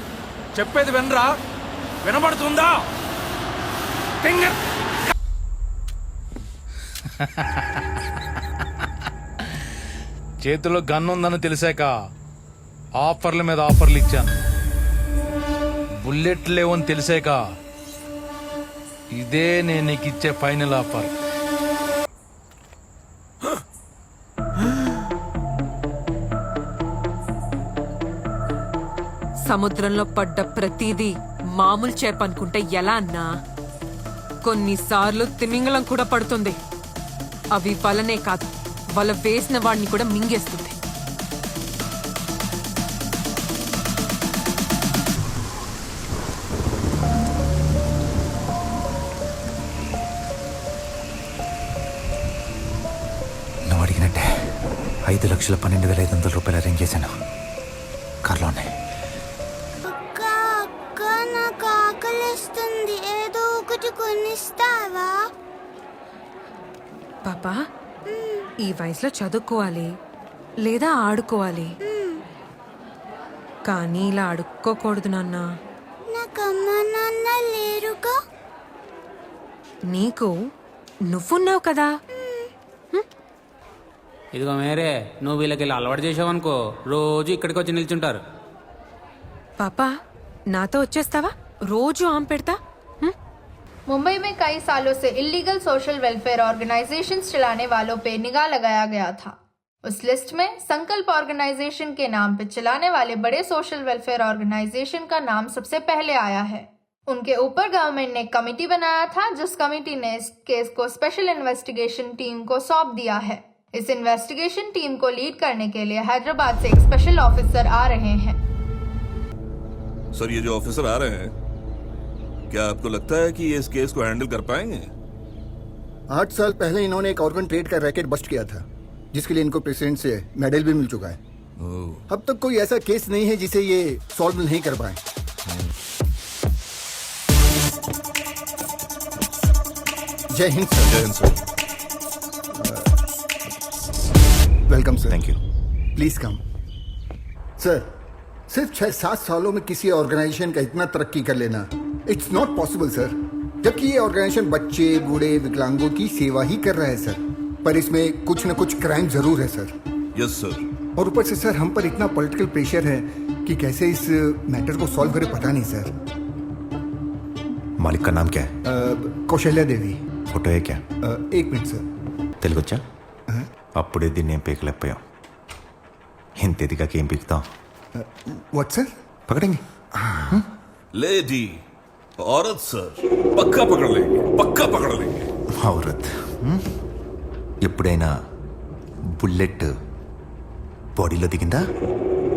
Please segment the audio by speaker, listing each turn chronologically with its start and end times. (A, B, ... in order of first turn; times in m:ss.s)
0:00.6-0:01.3 A
0:02.0-0:02.8 A
0:04.2-0:04.6 A
0:07.2-0:07.6 A
0:10.4-0:11.9 A
0:13.0-0:14.4 A
0:16.0-0:17.4 A
0:19.2-0:21.1 A
0:29.5-0:33.3 B
0:34.4-0:36.6 B
0:37.5-0:40.8 B
0:53.7-0:54.3 C
0:55.1-0:57.1 C
0:58.2-0:58.7 C
0:59.8-1:05.2 D
1:07.2-1:07.5 B
1:08.1-1:08.5 D
1:08.6-1:09.9 B
1:10.6-1:11.7 B
1:11.8-1:12.2 D
1:13.7-1:15.4 B
1:16.1-1:18.2 D
1:19.9-1:20.3 B
1:21.1-1:21.9 B
1:22.1-1:22.5 D
1:24.3-1:28.2 E
1:29.6-1:29.9 B
1:30.5-1:33.1 B
1:33.9-1:39.3 F
1:39.8-1:58.4 F
2:00.1-2:01.3 G
2:02.5-2:04.9 G
2:06.1-2:11.2 H
2:11.6-2:12.0 G
2:12.1-2:15.0 H
2:20.3-2:21.0 H
2:20.9-2:21.4 G
2:22.6-2:23.0 H
2:24.7-2:25.2 H
2:25.1-2:25.4 C
2:26.0-2:26.4 H
2:27.6-2:27.9 H
2:28.5-2:39.7 H
2:40.2-2:40.6 G
2:41.0-2:45.9 H
2:47.8-2:48.5 C
2:48.7-2:50.0 H
2:50.3-2:50.8 C
2:51.0-2:51.8 H
2:52.4-2:52.8 C
2:53.8-2:55.0 C
2:56.4-2:57.4 C
2:58.0-2:58.9 H
2:59.3-2:59.6 C
3:00.9-3:01.5 G
3:02.2-3:05.3 G
3:05.6-3:06.6 C
3:07.6-3:08.1 C
3:09.2-3:09.7 C
3:11.0-3:11.6 C